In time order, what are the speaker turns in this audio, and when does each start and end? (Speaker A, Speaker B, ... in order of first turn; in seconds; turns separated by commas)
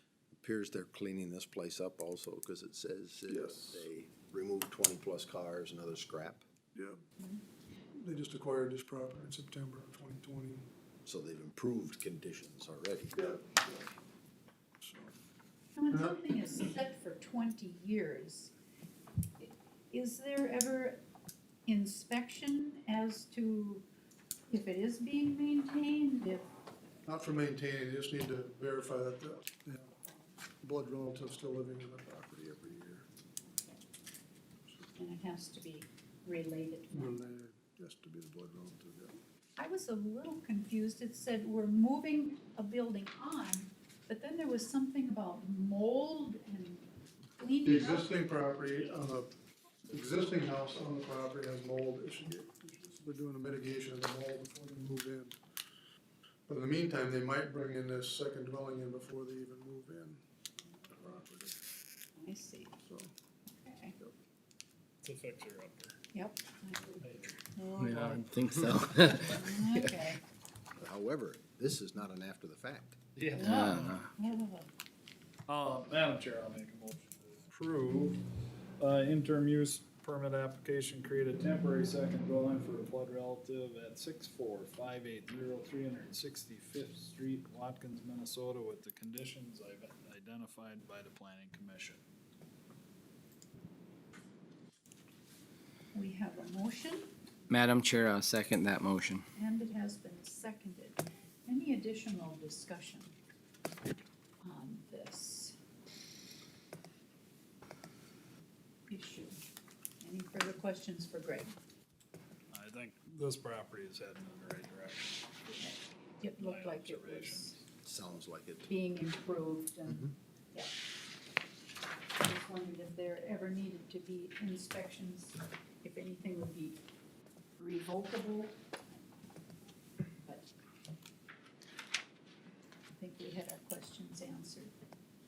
Speaker A: 0.3-6.4, Speaker B: 3.3-3.9, Speaker B: 6.8-7.0, Speaker B: 8.0-10.7, Speaker A: 11.1-13.2, Speaker B: 13.2-13.9, Speaker B: 14.8-15.1, Speaker C: 15.8-18.5, Speaker B: 15.9-16.5, Speaker C: 19.4-21.0, Speaker C: 21.7-23.9, Speaker C: 24.5-26.5, Speaker B: 27.1-30.0, Speaker B: 30.6-33.1, Speaker C: 33.5-33.8, Speaker C: 35.0-37.3, Speaker B: 36.9-39.2, Speaker C: 39.6-46.9, Speaker C: 47.4-48.1, Speaker B: 47.6-49.3, Speaker B: 49.9-55.4, Speaker B: 56.5-61.6, Speaker C: 62.2-62.8, Speaker B: 62.8-63.1, Speaker C: 63.5-64.0, Speaker D: 65.0-66.0, Speaker C: 66.1-67.9, Speaker D: 67.0-67.4, Speaker E: 67.8-70.0, Speaker D: 68.0-68.2, Speaker C: 69.3-70.2, Speaker A: 70.8-73.0, Speaker D: 73.2-74.0, Speaker E: 73.3-74.1, Speaker C: 73.4-74.7, Speaker D: 75.5-92.0, Speaker C: 95.9-97.1, Speaker E: 97.5-99.3, Speaker C: 99.4-103.2, Speaker C: 104.4-105.6, Speaker C: 108.9-109.4, Speaker C: 110.0-111.5, Speaker D: 112.5-115.6, Speaker C: 115.5-117.5, Speaker D: 116.4-117.6, Speaker A: 117.8-118.7, Speaker C: 118.7-120.7, Speaker C: 122.2-126.8, Speaker C: 127.6-129.0, Speaker C: 132.9-134.7